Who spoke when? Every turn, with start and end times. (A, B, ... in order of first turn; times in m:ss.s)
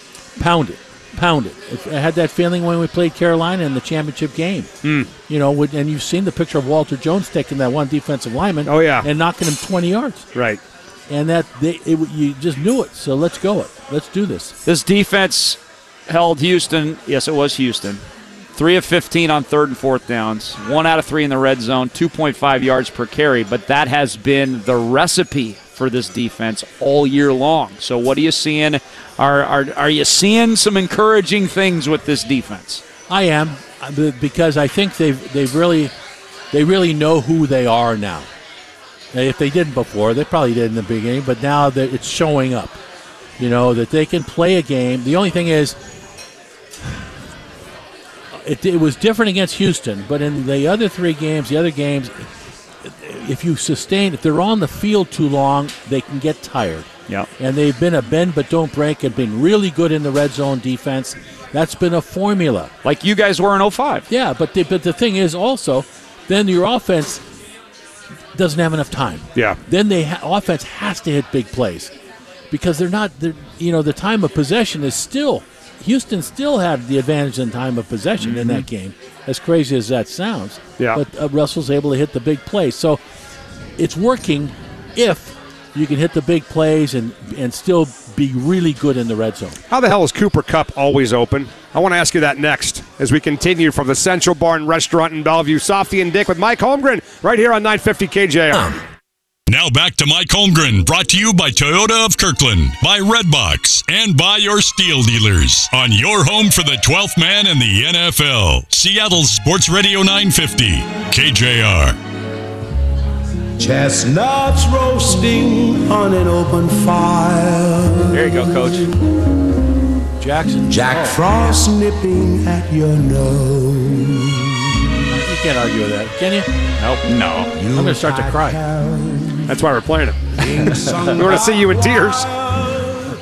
0:00.4-0:04.7 A
0:04.8-0:05.1 B
0:05.3-0:10.3 A
0:08.6-0:09.1 B
0:10.3-0:10.6 B
0:11.1-0:14.5 A
0:14.6-0:18.0 C
0:18.6-0:32.8 C
0:33.1-0:35.9 A
0:36.5-0:38.3 A
0:39.1-0:42.8 A
0:43.4-0:45.8 A
0:48.3-0:52.3 A
0:52.8-0:56.9 A
0:57.4-1:02.7 A
1:02.8-1:04.0 C
1:04.1-1:07.2 A
1:08.3-1:11.9 A
1:12.5-1:23.0 A
1:18.2-1:18.6 C
1:23.8-1:29.6 A
1:29.7-1:38.8 B
1:38.5-1:38.8 A
1:39.5-1:52.0 D
1:53.6-1:58.8 E
1:58.1-1:58.9 C
2:00.2-2:01.6 A
2:00.7-2:04.5 E
2:05.1-2:06.5 A
2:06.8-2:07.5 C
2:07.5-2:09.6 E
2:07.7-2:08.6 A
2:09.5-2:12.3 B
2:10.4-2:12.9 E